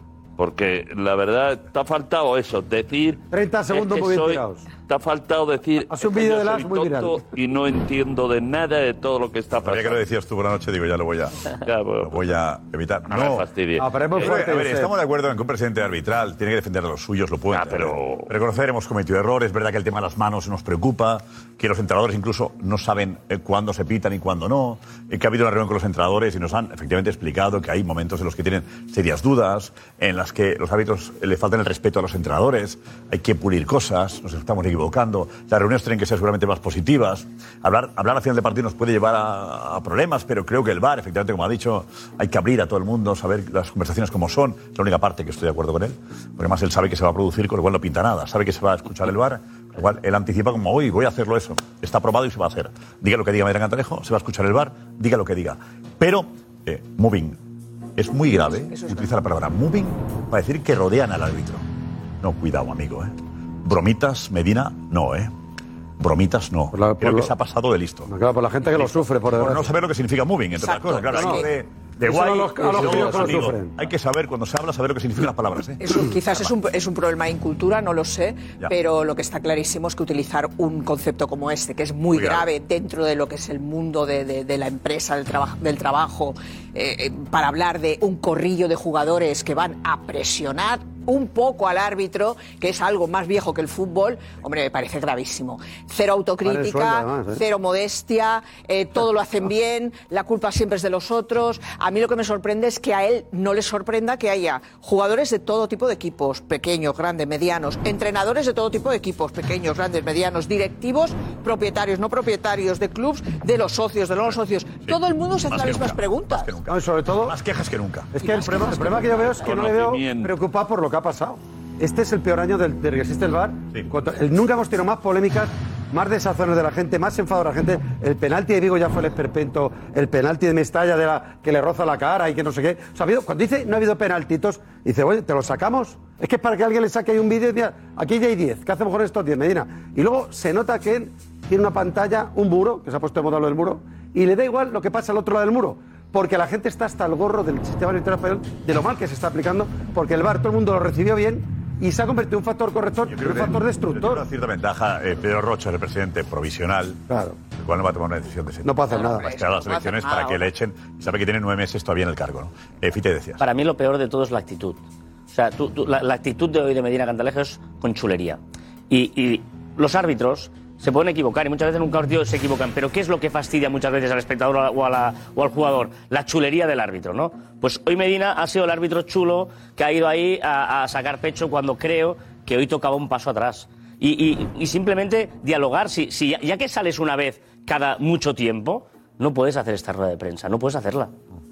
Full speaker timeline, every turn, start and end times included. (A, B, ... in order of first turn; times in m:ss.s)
0:00.4-0:10.0 A
0:03.3-0:04.6 B
0:05.9-0:07.2 B
0:09.6-0:11.4 C
0:11.6-0:12.2 A
0:12.0-0:13.5 C
0:13.1-0:14.4 A
0:13.8-0:14.9 B
0:14.2-0:57.4 C
0:17.5-0:18.3 A
0:58.0-1:01.6 C
0:58.8-0:59.1 D
1:02.2-1:05.3 C
1:06.0-1:08.1 C
1:06.7-1:07.3 B
1:08.1-1:09.7 B
1:08.6-1:16.5 C
1:10.6-1:11.5 D
1:11.1-1:11.4 B
1:12.0-1:13.8 B
1:15.8-1:56.5 D
1:22.1-1:22.5 C
1:36.4-1:37.4 B
1:55.5-1:58.2 C
1:56.7-1:57.4 B
1:58.1-2:34.2 B
1:59.2-2:00.3 A
2:33.1-2:37.0 C
2:37.1-2:37.4 B
2:37.5-2:43.4 C
2:38.6-2:39.3 B
2:38.9-2:40.5 D
2:43.4-2:48.4 E
2:48.9-3:11.1 E